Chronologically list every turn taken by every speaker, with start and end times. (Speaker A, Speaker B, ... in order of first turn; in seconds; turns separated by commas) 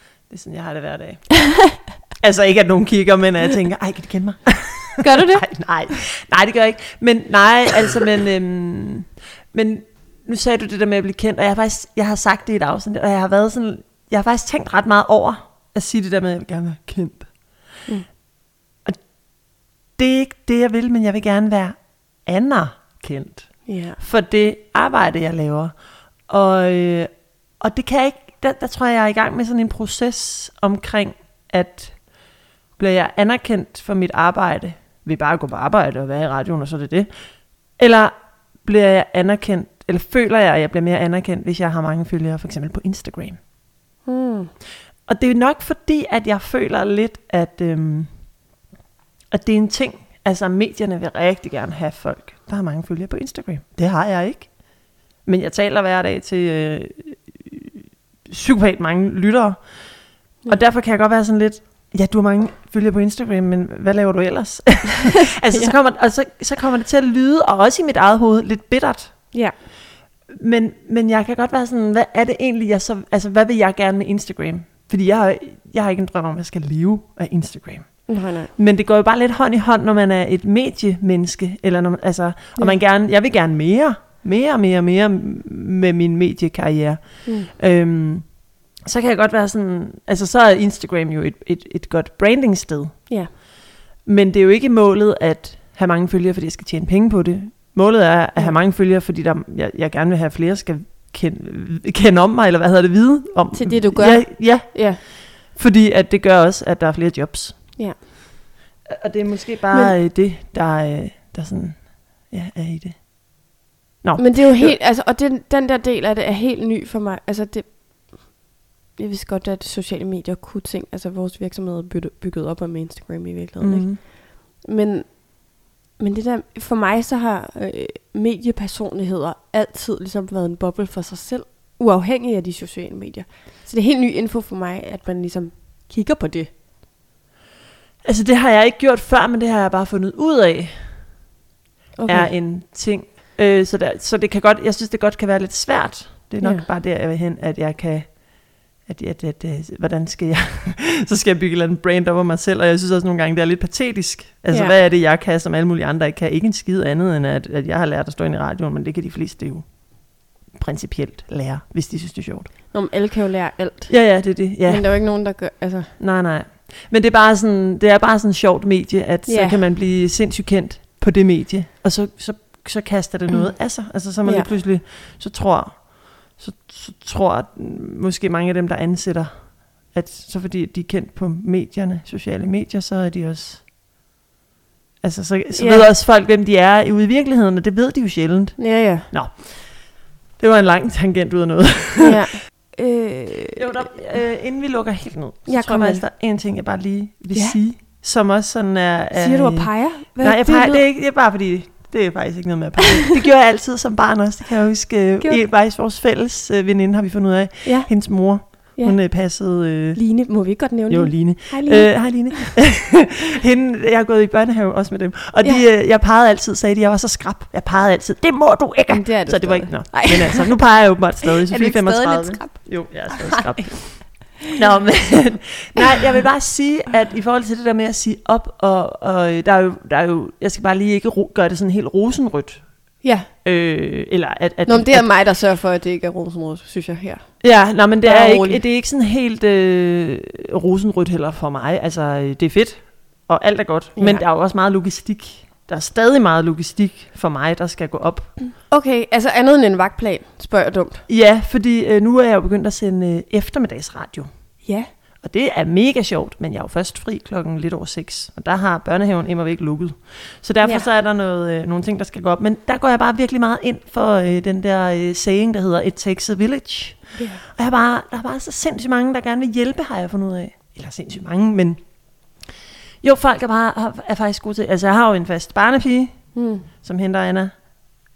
Speaker A: 0.3-17.3, Speaker B: 5.0-5.5, Speaker A: 20.0-25.8, Speaker B: 23.6-24.0, Speaker A: 26.3-32.0, Speaker A: 32.8-37.1, Speaker A: 37.8-43.4, Speaker B: 44.0-44.5, Speaker A: 45.1-48.1, Speaker A: 49.3-54.5, Speaker A: 55.2-69.4, Speaker A: 70.3-93.4, Speaker B: 78.1-78.5, Speaker B: 87.2-87.5, Speaker A: 94.0-107.8, Speaker B: 103.5-105.0, Speaker A: 108.9-113.1, Speaker B: 109.7-110.0, Speaker A: 114.0-114.8, Speaker B: 114.2-118.4, Speaker B: 119.0-136.5, Speaker A: 123.6-124.0, Speaker A: 138.0-141.1, Speaker B: 142.0-142.3, Speaker A: 142.1-162.5, Speaker B: 146.4-146.7, Speaker B: 154.5-154.8, Speaker B: 162.7-165.9, Speaker A: 163.9-165.1, Speaker A: 166.0-183.7, Speaker B: 169.2-169.6, Speaker B: 174.2-174.5, Speaker A: 185.0-192.2, Speaker B: 185.5-185.9, Speaker B: 188.6-189.1, Speaker B: 192.0-193.9, Speaker A: 193.6-210.0, Speaker B: 195.5-196.1, Speaker B: 197.3-197.6, Speaker B: 199.1-200.8, Speaker B: 207.6-212.6, Speaker A: 210.9-235.1, Speaker B: 218.9-220.6, Speaker B: 221.2-224.3, Speaker B: 233.0-233.3, Speaker B: 234.7-237.4, Speaker A: 237.4-248.3, Speaker B: 238.0-238.6, Speaker B: 243.9-244.2, Speaker B: 248.6-251.0, Speaker A: 251.1-254.3, Speaker B: 254.6-254.9, Speaker A: 255.2-271.8, Speaker B: 260.6-260.9, Speaker B: 267.1-267.4, Speaker A: 273.0-277.7, Speaker B: 276.3-276.7